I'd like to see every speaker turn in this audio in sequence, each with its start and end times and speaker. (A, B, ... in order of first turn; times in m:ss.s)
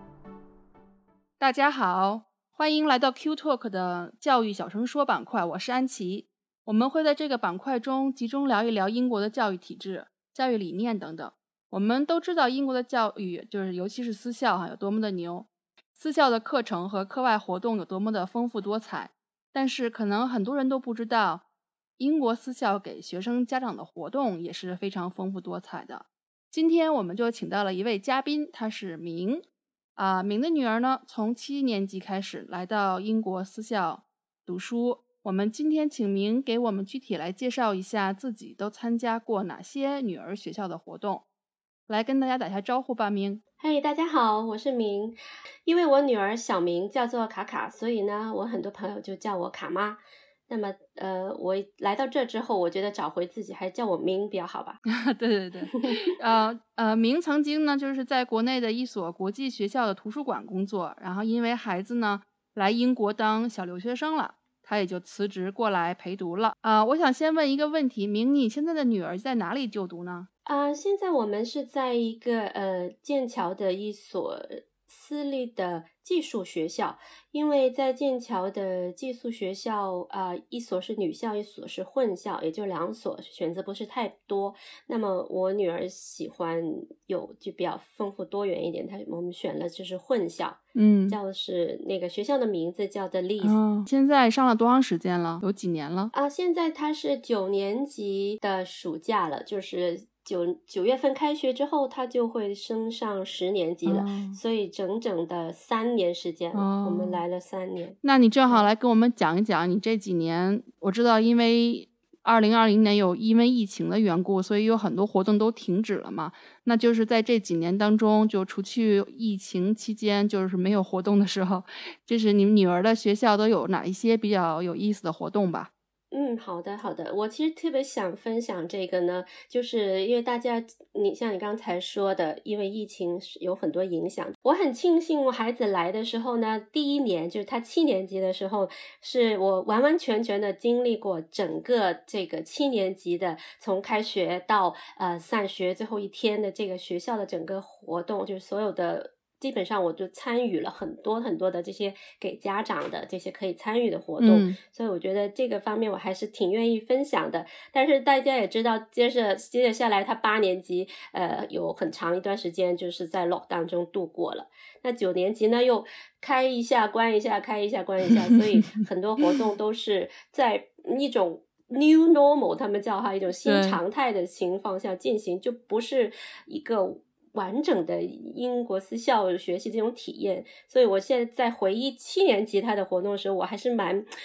0:01.4-0:21.4 A
0:22.0-0:29.4 A
0:30.0-0:41.2 A
0:41.9-0:43.4 A
0:43.6-0:54.8 B
0:54.9-1:10.3 A
1:10.5-1:33.6 B
1:30.8-1:31.2 A
1:33.4-1:36.1 A
1:36.1-1:48.7 B
1:43.9-1:44.4 A
1:46.5-1:47.2 A
1:48.0-2:05.7 A
2:06.1-3:04.0 B
2:34.2-2:34.6 A
2:53.4-2:53.8 A